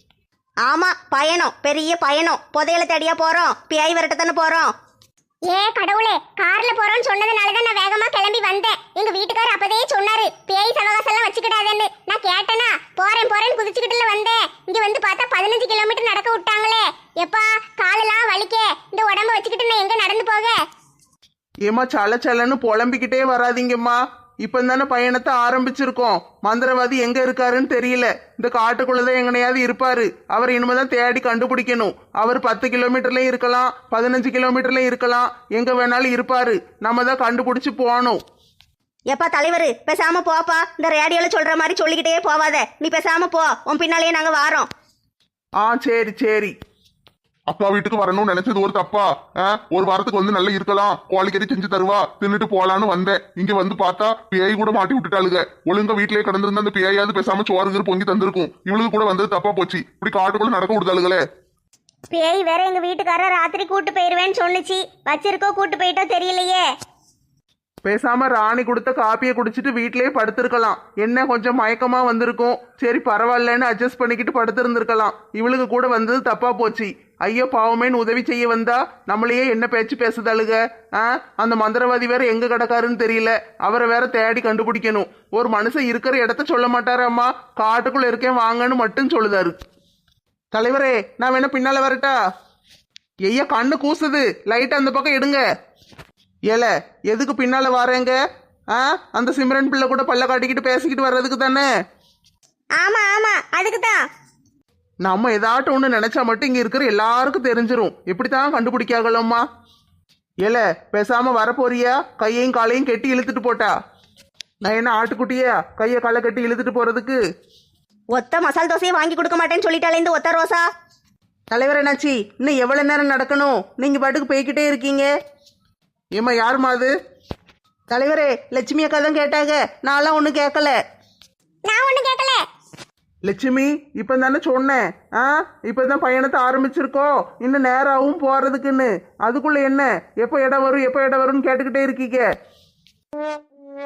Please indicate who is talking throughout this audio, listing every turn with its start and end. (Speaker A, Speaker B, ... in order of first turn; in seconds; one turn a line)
Speaker A: 0.7-4.7
Speaker B: 5.5-20.6
Speaker C: 21.7-38.2
Speaker A: 39.1-44.7
Speaker C: 45.6-46.5
Speaker D: 47.5-61.2
Speaker B: 62.1-66.7
Speaker C: 67.8-89.6
Speaker C: 90.5-92.2
Speaker C: 93.3-95.4
Speaker C: 96.5-98.2
Speaker C: 98.7-101.7
Speaker B: 102.8-104.0
Speaker C: 105.0-109.4
Speaker C: 110.4-113.7
Speaker C: 114.7-117.2
Speaker A: 118.1-120.7
Speaker C: 121.5-125.1
Speaker C: 126.2-126.9
Speaker C: 127.9-130.8
Speaker B: 131.7-132.4
Speaker C: 133.3-142.3